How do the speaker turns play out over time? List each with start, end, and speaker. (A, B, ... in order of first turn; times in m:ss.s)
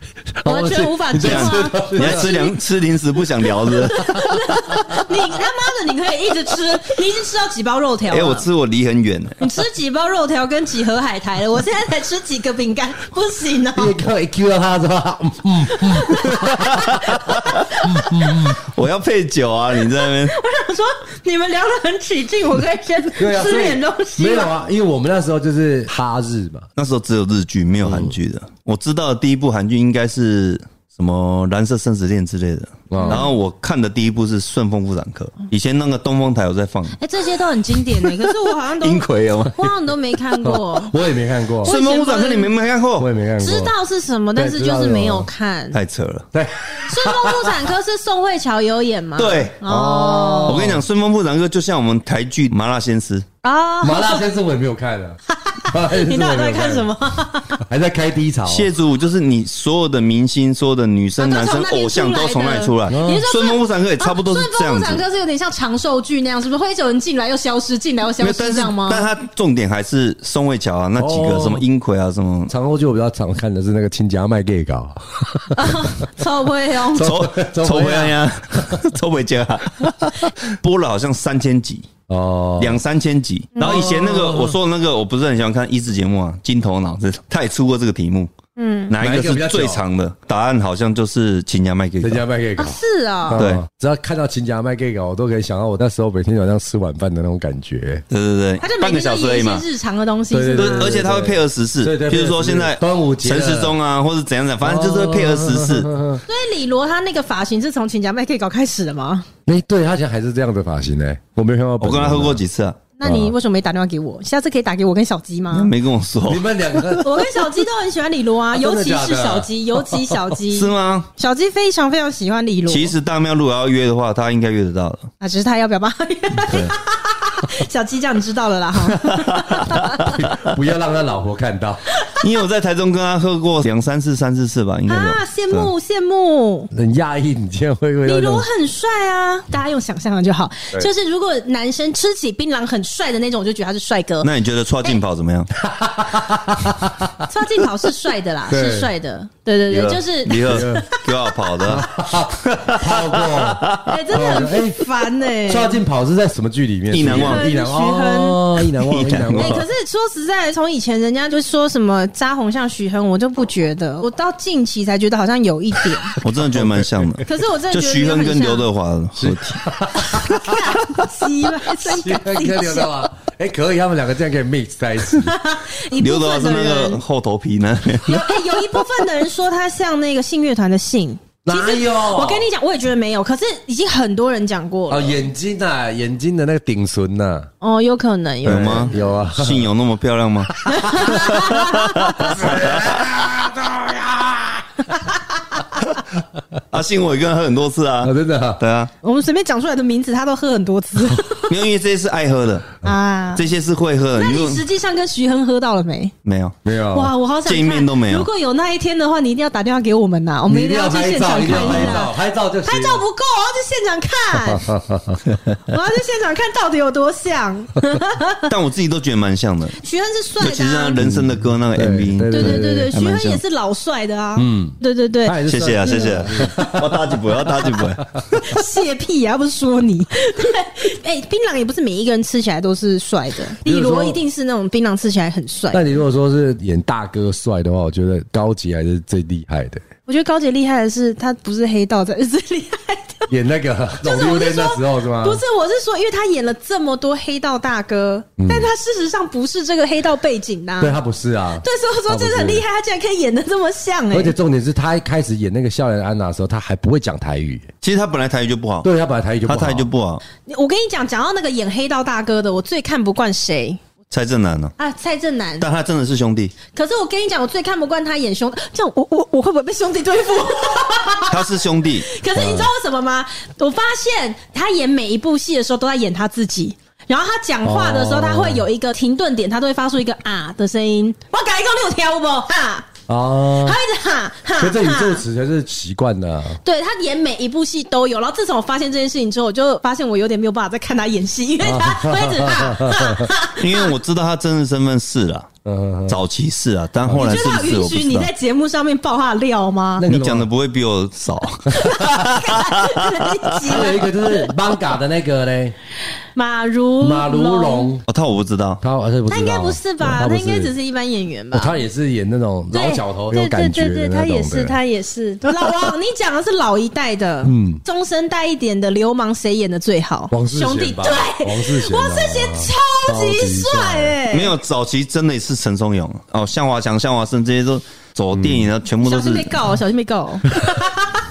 0:00.3-0:02.3 A
0:00.4-0:02.6 B
0:01.1-0:04.4 C
0:03.6-0:08.5 B
0:08.1-0:09.4 C
0:09.4-0:14.0 B
0:13.7-0:17.2 A
0:15.7-0:18.1 B
0:16.5-0:20.4 C
0:17.8-0:18.6 A
0:19.8-0:24.5 B
0:23.2-0:26.7 A
0:26.8-0:37.0 C
0:27.8-0:28.2 A
0:32.9-0:33.3 A
0:33.0-0:33.3 B
0:37.0-0:40.9 B
0:38.0-0:39.6 C
0:40.4-0:41.7 A
0:41.6-0:42.5 B
0:41.6-0:43.1 C
0:43.0-0:43.7 A
0:43.4-0:45.8 B
0:44.4-0:45.3 A
0:45.7-0:46.3 C
0:46.3-0:47.6 A
0:46.9-0:50.6 B
0:49.2-0:49.6 C
0:49.6-0:50.8 A
0:50.4-0:53.2 C
0:53.4-0:54.2 B
0:53.8-0:56.9 A
0:55.3-0:57.6 B
0:57.7-0:58.7 A
0:58.5-1:05.0 C
1:01.2-1:09.1 B
1:02.9-1:03.2 A
1:08.2-1:12.5 C
1:11.0-1:11.6 A
1:12.5-1:15.8 A
1:15.5-1:17.1 B
1:16.9-1:18.8 A
1:17.0-1:21.9 C
1:22.1-1:22.8 A
1:22.6-1:28.3 C
1:23.6-1:23.9 B
1:23.6-1:24.6 A
1:28.6-1:28.9 B
1:28.9-1:32.2 C
1:29.0-1:29.8 A
1:32.0-1:38.0 A
1:32.6-1:33.4 B
1:33.3-1:33.6 C
1:38.1-1:39.6 C
1:38.6-1:40.9 B
1:40.3-1:43.8 A
1:40.6-1:45.9 C
1:44.6-1:46.2 A
1:46.3-1:49.3 B
1:49.4-1:52.4 A
1:51.8-1:52.8 C
1:53.0-1:55.7 B
1:53.0-1:53.3 A
1:55.5-1:56.4 C
1:56.2-1:57.3 A
1:57.0-2:02.9 B
1:58.5-2:00.1 A
2:00.5-2:01.1 C
2:02.7-2:05.1 C
2:05.2-2:10.3 B
2:06.4-2:06.7 C
2:08.9-2:10.3 C
2:10.2-2:11.8 A
2:12.0-2:12.2 B
2:12.2-2:15.7 C
2:14.9-2:16.7 B
2:16.7-2:18.5 A
2:18.0-2:24.3 B
2:24.2-2:25.5 C
2:25.6-2:27.2 A
2:27.2-2:31.0 B
2:28.5-2:28.9 A
2:29.7-2:33.9 C
2:30.4-2:30.9 A
2:31.6-2:34.9 A
2:33.8-2:35.8 B
2:35.5-2:39.7 A
2:36.9-2:37.5 C
2:37.0-2:38.4 B
2:38.7-2:39.6 C
2:39.3-2:46.2 B
2:46.2-2:49.6 C
2:46.5-2:47.2 A
2:47.2-2:48.6 B
2:49.2-2:50.7 A
2:50.0-2:52.9 B
2:51.7-2:55.4 A
2:55.2-2:57.0 B
2:55.9-2:58.4 C
2:58.0-3:05.2 B
3:01.4-3:02.5 A
3:04.9-3:07.5 A
3:07.6-3:08.9 B
3:08.4-3:13.0 C
3:08.4-3:09.7 A
3:10.6-3:12.4 B
3:10.7-3:11.4 A
3:12.2-3:15.0 A
3:14.9-3:15.6 B
3:16.7-3:18.9 C
3:18.0-3:18.6 A
3:19.0-3:21.5 B
3:21.5-3:22.8 C
3:22.8-3:23.4 B
3:23.3-3:24.6 C
3:24.2-3:26.1 B
3:26.2-3:26.6 C
3:26.6-3:27.1 A
3:26.9-3:32.1 B
3:27.4-3:28.3 C
3:30.5-3:33.0 A
3:31.4-3:32.0 C
3:32.6-3:34.7 B
3:34.5-3:35.2 A
3:35.7-3:38.5 B
3:38.5-3:39.8 C
3:39.8-3:41.0 B
3:40.4-3:43.4 C
3:41.0-3:42.9 A
3:42.3-3:46.8 B
3:44.4-3:47.9 A
3:45.4-3:48.5 C
3:48.4-3:56.0 B
3:53.6-3:54.2 A
3:55.7-3:59.8 A
4:00.1-4:03.2 B
4:03.3-4:05.4 A
4:04.0-4:11.0 B
4:08.4-4:08.7 A
4:10.8-4:12.6 A
4:11.6-4:14.3 B
4:14.1-4:17.7 A
4:17.8-4:18.9 C
4:18.8-4:19.9 A
4:19.5-4:20.2 C
4:20.4-4:23.8 B
4:24.1-4:24.7 C
4:24.8-4:25.7 B
4:25.6-4:26.5 C
4:26.7-4:42.9 B
4:31.3-4:32.1 C
4:32.3-4:32.7 A
4:37.6-4:38.6 A
4:43.1-4:43.8 A
4:43.6-4:45.2 B
4:44.6-4:46.6 A
4:46.6-4:53.9 B
4:51.6-4:53.3 A
4:53.5-4:55.5 C
4:55.6-4:56.2 A
4:56.1-4:58.3 C
4:57.1-5:00.1 B
5:00.0-5:00.5 A
5:00.0-5:03.2 C
5:01.7-5:04.5 B
5:03.6-5:05.7 A
5:06.3-5:08.0 B
5:07.0-5:08.0 A
5:08.1-5:08.8 C
5:08.8-5:10.7 A
5:09.3-5:11.8 B
5:11.5-5:14.8 A
5:12.7-5:24.5 B
5:17.4-5:17.8 A
5:20.3-5:24.2 A
5:24.3-5:29.6 C
5:28.3-5:28.7 A
5:29.0-5:31.2 B